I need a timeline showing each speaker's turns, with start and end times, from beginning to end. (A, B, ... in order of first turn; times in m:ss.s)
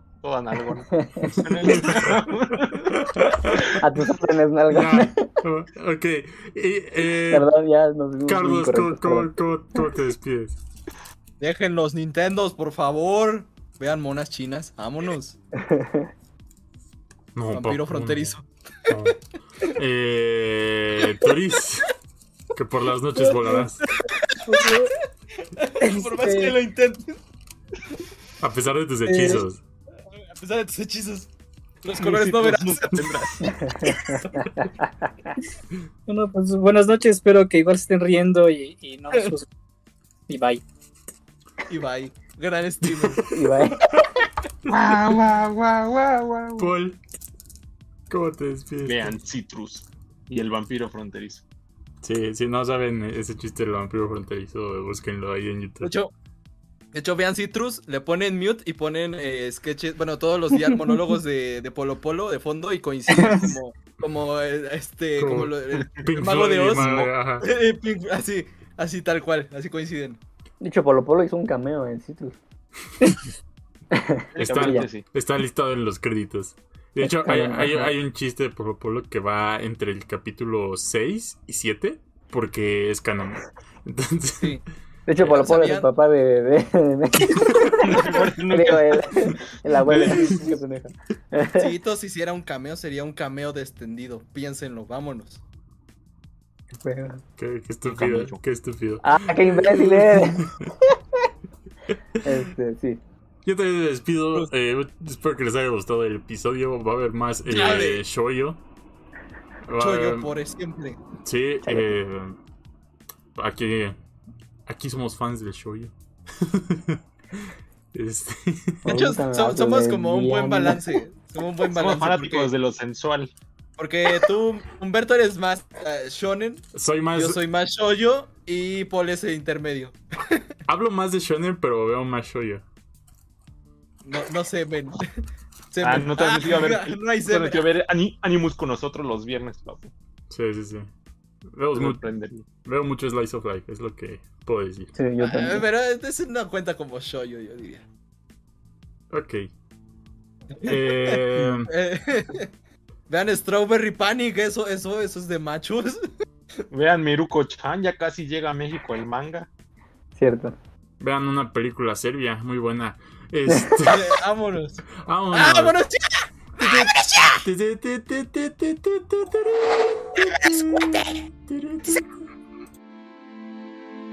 0:00.2-0:03.0 A
0:00.9-0:01.4 B
0:01.8-0:02.1 C
0:02.9-0:03.7 C
0:03.8-0:05.3 B
0:04.7-0:07.5 C
0:07.2-0:09.3 B
0:08.3-0:10.6 C
0:11.4-0:15.4 D
0:15.6-0:16.1 B
0:17.4-0:18.4 C
0:17.5-0:19.0 D
0:18.9-0:21.9 C
0:22.6-0:23.9 C
0:23.2-0:23.7 E
0:24.0-0:24.9 D
0:24.4-0:24.9 E
0:25.6-0:27.2 D
0:25.9-0:26.6 E
0:28.4-0:29.6 C
0:29.1-0:29.4 E
0:30.1-0:31.3 D
0:31.8-0:33.1 D
0:31.9-0:33.8 A
0:33.4-0:35.3 B
0:36.1-0:39.5 E
0:40.3-0:40.6 E
0:41.7-0:43.6 D
0:43.3-0:43.8 B
0:44.7-0:46.7 A
0:46.6-0:47.0 C
0:48.1-0:49.2 C
0:48.9-0:51.4 A
0:52.0-0:55.9 C
0:55.8-0:56.1 D
0:56.9-1:10.2 D
1:03.2-1:03.4 E
1:05.2-1:07.5 C
1:10.6-1:12.4 B
1:13.9-1:14.9 B
1:14.4-1:15.0 A
1:14.6-1:24.6 C
1:17.0-1:17.9 B
1:25.1-1:27.8 B
1:25.2-1:25.9 D
1:27.8-1:30.5 A
1:27.9-1:28.3 D
1:28.5-1:31.7 B
1:31.6-1:35.4 D
1:36.8-1:37.2 B
1:37.4-1:40.7 C
1:37.8-1:38.4 A
1:39.0-1:40.9 B
1:42.2-1:43.0 B
1:43.4-1:48.6 C
1:47.5-1:48.0 D
1:49.7-1:50.3 C
1:49.8-1:51.0 D
1:51.2-1:52.4 C
1:51.6-1:52.0 B
1:53.4-1:54.0 C
1:54.7-1:57.0 C
1:57.9-1:59.0 C
1:58.8-2:00.9 B
1:58.8-2:02.5 D
2:01.7-2:03.3 A
2:03.8-2:06.6 D
2:06.7-2:07.4 C
2:07.1-2:10.4 D
2:10.7-2:12.6 C
2:14.0-2:15.1 D
2:15.7-2:17.7 D
2:15.8-2:19.9 A
2:20.3-2:20.9 C
2:21.5-2:22.0 C
2:21.7-2:22.4 A
2:22.6-2:24.9 C
2:25.0-2:25.7 B
2:25.2-2:27.8 D
2:29.1-2:29.5 C
2:30.5-2:32.5 D
2:30.6-2:31.7 C
2:33.1-2:36.0 D
2:36.7-2:39.5 A
2:40.2-2:40.6 B
2:41.0-2:44.2 C
2:43.8-2:47.4 D
2:45.0-2:45.8 C
2:46.6-2:52.1 C